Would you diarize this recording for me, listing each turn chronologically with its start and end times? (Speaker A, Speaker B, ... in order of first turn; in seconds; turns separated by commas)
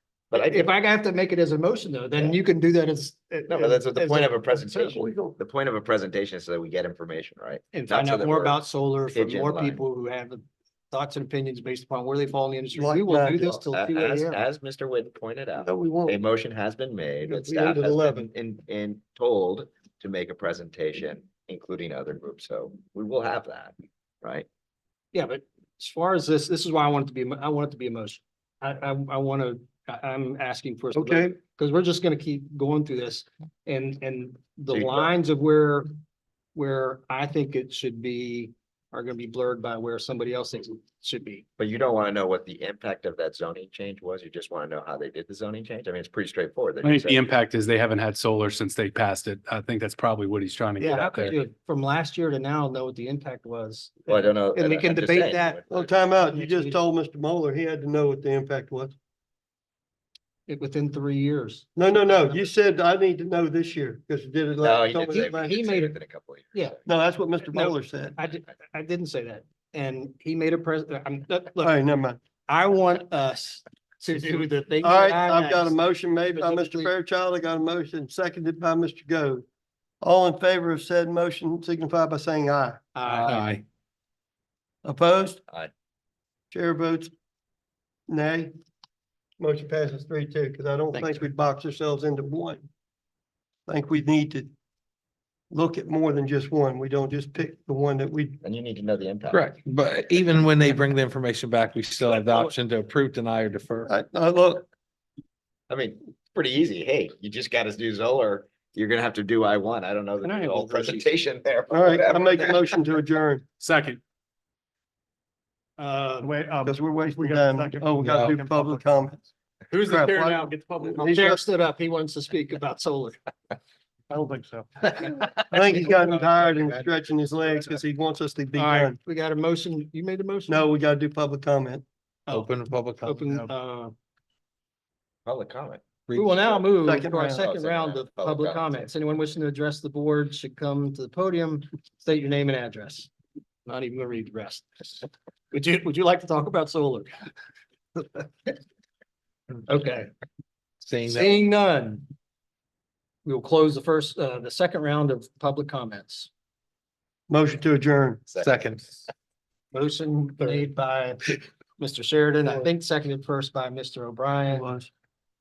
Speaker A: 0.3-0.7, Speaker B: 0.3-4.3, Speaker A: 3.5-8.6, Speaker C: 4.6-5.3, Speaker B: 7.7-14.4, Speaker A: 9.1-9.8, Speaker C: 12.8-13.5, Speaker A: 13.5-24.4, Speaker C: 15.6-16.1, Speaker C: 17.2-18.3, Speaker B: 25.1-35.9, Speaker C: 30.9-31.3, Speaker A: 34.7-35.1, Speaker B: 36.5-41.4, Speaker A: 41.6-47.3, Speaker D: 46.8-51.3, Speaker B: 50.8-56.8, Speaker A: 54.1-56.0, Speaker C: 55.7-58.9, Speaker B: 60.5-61.7, Speaker C: 61.8-65.7, Speaker A: 64.6-66.8, Speaker B: 65.1-66.0, Speaker C: 66.8-68.2, Speaker B: 67.5-71.8, Speaker C: 71.6-72.2, Speaker B: 72.5-76.9, Speaker C: 74.8-79.4, Speaker C: 80.0-82.8, Speaker B: 82.9-83.6, Speaker E: 83.0-83.6, Speaker C: 84.8-85.4, Speaker C: 86.5-87.1, Speaker C: 88.1-88.5, Speaker C: 89.4-92.7, Speaker C: 93.7-94.5, Speaker C: 95.5-98.4, Speaker A: 98.4-99.5, Speaker E: 99.3-103.9, Speaker C: 103.9-104.7, Speaker A: 105.7-112.8, Speaker B: 110.2-111.0, Speaker C: 111.7-113.4, Speaker D: 113.6-114.0, Speaker B: 115.8-116.3, Speaker F: 116.2-118.8, Speaker C: 116.6-119.2, Speaker E: 118.0-118.4, Speaker F: 119.7-121.1, Speaker C: 119.8-121.4, Speaker B: 120.9-123.2, Speaker F: 124.1-124.9, Speaker B: 124.8-126.2, Speaker C: 125.5-129.0, Speaker B: 128.5-130.7, Speaker C: 130.5-131.8, Speaker B: 132.3-132.5, Speaker E: 132.3-133.5, Speaker B: 133.0-133.9, Speaker A: 135.2-135.8, Speaker E: 136.1-136.4, Speaker B: 136.1-143.1, Speaker C: 136.8-137.5, Speaker A: 137.4-138.9, Speaker B: 143.6-147.3, Speaker B: 147.9-148.5, Speaker B: 149.7-150.1, Speaker E: 150.8-151.4, Speaker B: 151.1-152.1, Speaker B: 153.2-156.3, Speaker C: 157.3-158.3, Speaker A: 158.3-158.6, Speaker E: 158.3-158.8, Speaker B: 159.7-164.7, Speaker C: 164.5-164.9